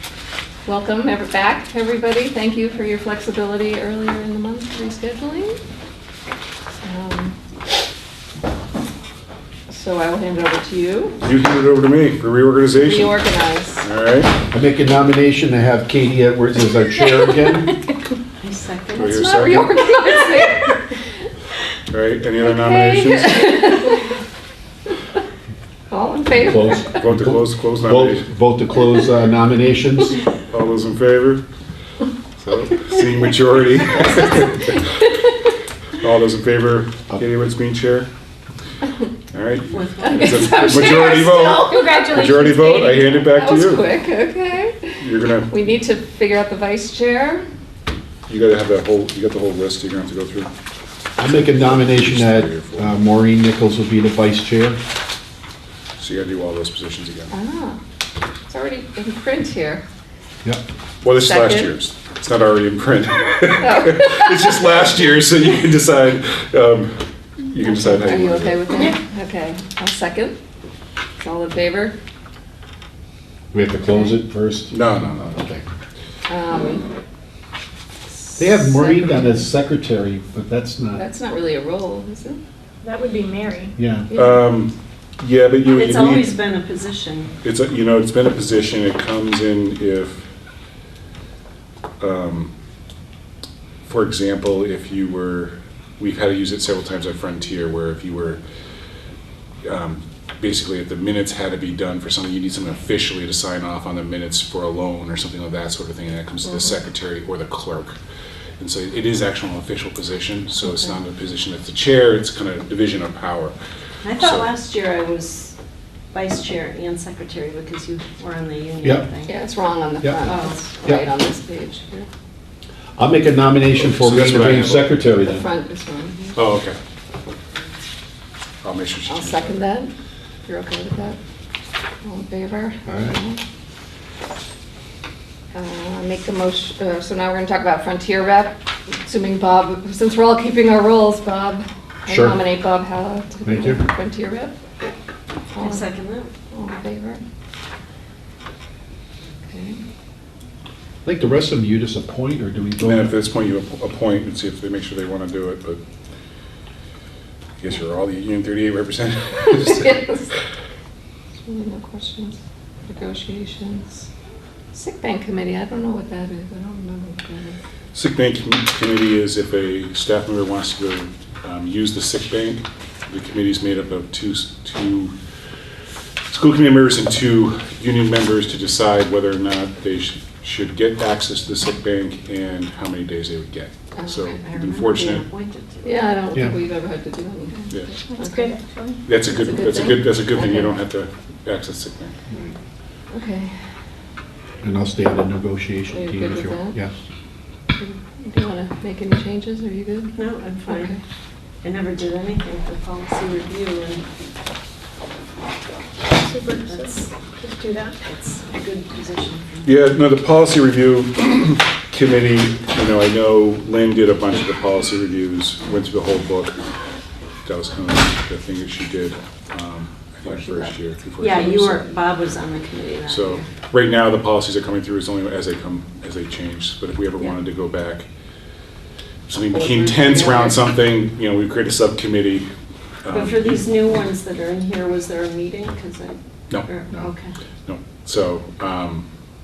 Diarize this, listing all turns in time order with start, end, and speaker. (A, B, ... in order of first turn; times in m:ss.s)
0:00.6-0:05.6 A
0:06.8-0:07.4 A
0:09.7-0:11.2 A
0:11.2-0:14.3 B
0:12.7-0:13.9 A
0:14.5-0:17.7 C
0:18.4-0:19.2 D
0:18.9-0:21.0 A
0:18.9-0:19.8 B
0:21.9-0:23.6 B
0:22.4-0:24.2 A
0:25.9-0:27.0 A
0:26.4-0:30.2 C
0:26.9-0:28.2 B
0:30.5-0:31.4 B
0:32.4-0:35.0 B
0:34.5-0:35.1 A
0:36.0-0:38.1 B
0:39.3-0:43.9 B
0:39.7-0:40.8 D
0:40.0-0:47.4 A
0:41.7-0:42.3 E
0:45.0-0:45.5 B
0:48.3-0:50.5 B
0:51.2-0:54.8 C
0:51.5-0:52.9 B
0:56.0-0:57.3 B
0:57.3-0:57.8 A
0:58.5-0:59.8 A
1:01.0-1:08.7 B
1:01.1-1:01.8 A
1:03.5-1:05.1 A
1:07.6-1:10.4 A
1:11.2-1:11.9 A
1:13.5-1:15.6 C
1:13.9-1:14.2 A
1:14.7-1:15.3 B
1:16.3-1:16.8 A
1:18.1-1:19.5 A
1:18.4-1:21.0 C
1:21.0-1:22.4 A
1:22.8-1:23.7 E
1:23.8-1:24.1 C
1:24.1-1:24.5 A
1:24.1-1:26.4 B
1:25.7-1:27.3 D
1:27.4-1:30.2 B
1:32.0-1:32.5 B
1:33.8-1:38.4 B
1:39.6-1:48.0 B
1:48.6-1:53.5 B
1:54.0-1:55.6 D
1:54.2-1:54.5 B
1:56.1-1:59.3 D
1:59.3-2:02.1 A
2:00.2-2:00.6 D
2:03.0-2:05.5 C
2:03.8-2:04.9 B
2:05.2-2:06.3 A
2:06.3-2:06.8 B
2:08.6-2:09.7 B
2:09.1-2:09.9 A
2:10.5-2:11.2 A
2:12.0-2:13.4 A
2:12.9-2:13.2 C
2:15.5-2:24.6 A
2:22.1-2:22.4 C
2:23.4-2:23.8 C
2:25.5-2:25.8 A
2:25.6-2:26.3 D
2:26.5-2:27.2 A
2:29.4-2:29.8 A
2:31.0-2:33.1 C
2:32.8-2:35.8 B
2:37.6-2:40.0 B
2:39.4-2:40.3 A
2:41.4-2:42.4 A
2:42.9-2:44.1 A
2:44.7-2:47.6 A
2:47.9-2:55.1 B
2:56.3-3:05.2 B
3:04.0-3:04.4 A
3:04.4-3:06.0 D
3:05.8-3:08.5 A
3:08.1-3:09.0 E
3:09.0-3:12.1 B
3:09.2-3:10.7 A
3:13.1-3:13.5 A
3:14.6-3:16.9 C
3:15.9-3:16.7 A
3:17.8-3:21.0 A
3:20.1-3:21.0 D
3:21.6-3:24.0 D
3:26.1-3:28.0 E
3:26.5-3:27.1 D
3:28.0-3:29.9 D
3:29.6-3:36.6 B
3:37.4-3:41.8 B
3:41.2-3:43.5 D
3:43.1-3:48.0 B
3:49.3-3:52.5 B
3:49.5-3:50.6 A
3:53.0-3:53.7 B
3:53.1-3:57.3 D
3:57.7-3:59.0 B